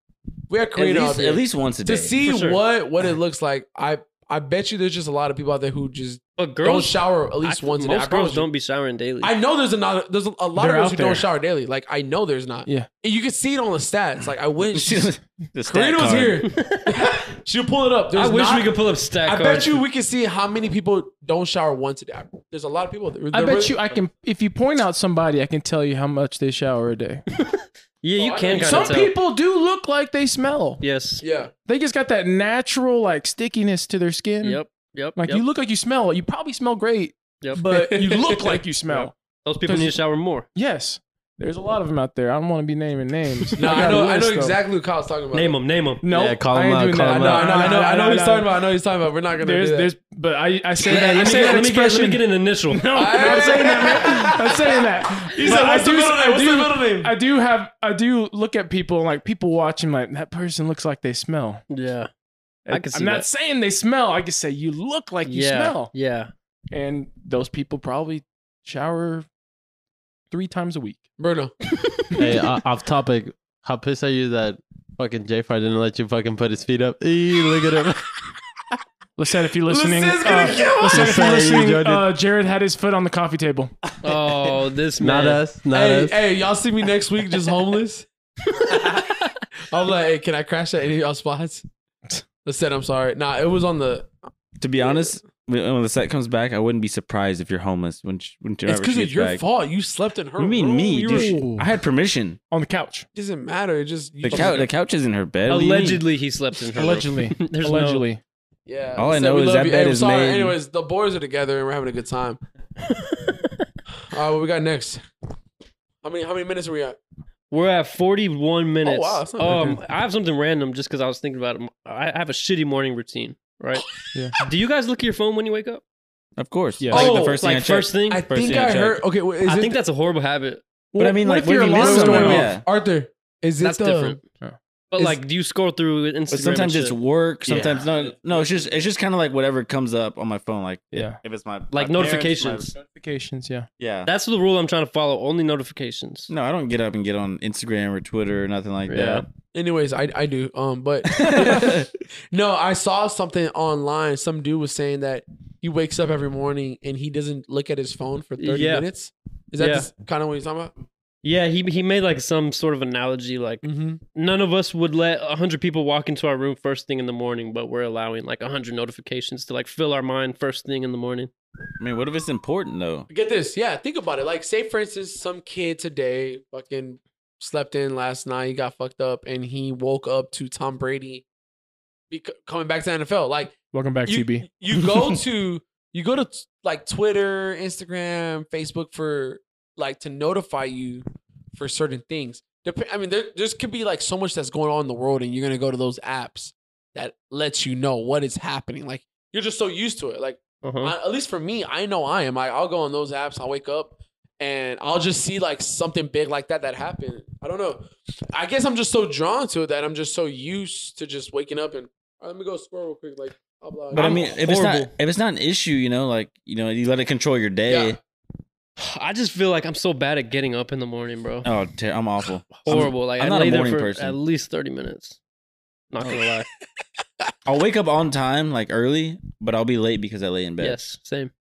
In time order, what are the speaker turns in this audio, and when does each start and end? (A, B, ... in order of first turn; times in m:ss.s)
0:00.5-0:08.5 A
0:00.7-0:02.2 B
0:02.2-0:02.6 C
0:06.4-0:09.3 C
0:09.2-0:15.1 A
0:10.6-0:11.3 D
0:14.7-0:16.5 B
0:15.6-0:23.8 A
0:16.5-0:17.1 C
0:18.1-0:19.8 C
0:23.3-0:27.2 D
0:27.5-0:29.1 C
0:28.2-0:29.0 A
0:28.6-0:30.8 D
0:30.8-0:31.2 C
0:31.2-0:31.5 A
0:31.6-0:34.6 D
0:34.4-0:35.4 C
0:35.2-0:39.1 D
0:37.6-0:38.6 A
0:38.9-0:40.5 C
0:39.6-0:40.0 D
0:40.5-0:44.6 D
0:43.6-0:45.6 A
0:43.6-0:43.9 C
0:45.3-0:46.0 C
0:46.0-0:48.5 D
0:46.1-0:47.6 E
0:47.1-0:49.9 A
0:49.4-1:01.6 D
0:50.8-0:51.6 A
0:50.8-0:53.7 C
0:52.9-0:57.1 A
1:01.7-1:02.1 C
1:02.6-1:05.9 D
1:02.7-1:03.3 C
1:05.2-1:06.3 C
1:06.7-1:09.3 D
1:10.3-1:11.1 D
1:11.2-1:11.5 A
1:12.2-1:18.0 E
1:19.2-1:23.7 D
1:19.7-1:21.4 A
1:20.5-1:22.1 E
1:24.0-1:25.4 C
1:25.0-1:26.2 E
1:25.7-1:28.1 A
1:28.7-1:31.6 A
1:32.4-1:34.1 A
1:34.6-1:39.4 B
1:34.8-1:35.2 A
1:38.6-1:41.4 A
1:40.4-1:42.4 B
1:41.0-1:41.7 D
1:42.5-1:43.0 D
1:43.1-1:44.7 A
1:44.2-1:46.0 B
1:44.3-1:44.6 C
1:45.5-1:48.0 C
1:46.7-1:48.2 D
1:48.6-1:52.4 A
1:49.0-1:50.6 B
1:53.0-1:53.5 C
1:54.0-1:55.0 A
1:56.0-1:57.0 A
1:57.5-2:03.8 C
1:58.8-1:59.8 A
1:59.4-1:59.8 D
2:04.4-2:05.8 C
2:06.4-2:09.0 B
2:06.8-2:07.1 D
2:06.9-2:07.4 A
2:06.9-2:08.3 C
2:08.1-2:09.8 A
2:09.4-2:10.6 C
2:10.9-2:12.5 D
2:10.9-2:12.6 B
2:11.7-2:14.2 A
2:13.6-2:14.2 C
2:14.9-2:17.0 C
2:16.3-2:22.7 B
2:17.5-2:17.9 E
2:20.9-2:21.2 D
2:21.7-2:22.7 C
2:22.9-2:23.7 D
2:23.8-2:24.1 B
2:24.0-2:26.3 C
2:26.3-2:29.2 B
2:28.9-2:29.2 C
2:29.5-2:40.7 A
2:31.1-2:31.8 B
2:38.4-2:38.9 C
2:39.6-2:39.9 C
2:41.2-2:43.6 C
2:43.6-2:44.0 A
2:44.1-2:51.3 C
2:51.8-2:53.1 B
2:53.1-3:01.2 A
3:02.1-3:34.3 A
3:03.7-3:04.5 D
3:20.6-3:20.9 C
3:33.9-3:38.0 B
3:33.9-3:34.9 C
3:37.7-3:38.0 A
3:38.8-3:41.5 C
3:41.4-3:44.2 B
3:42.6-3:45.2 C
3:45.9-3:46.5 C
3:47.4-3:50.8 B
3:50.6-3:51.3 C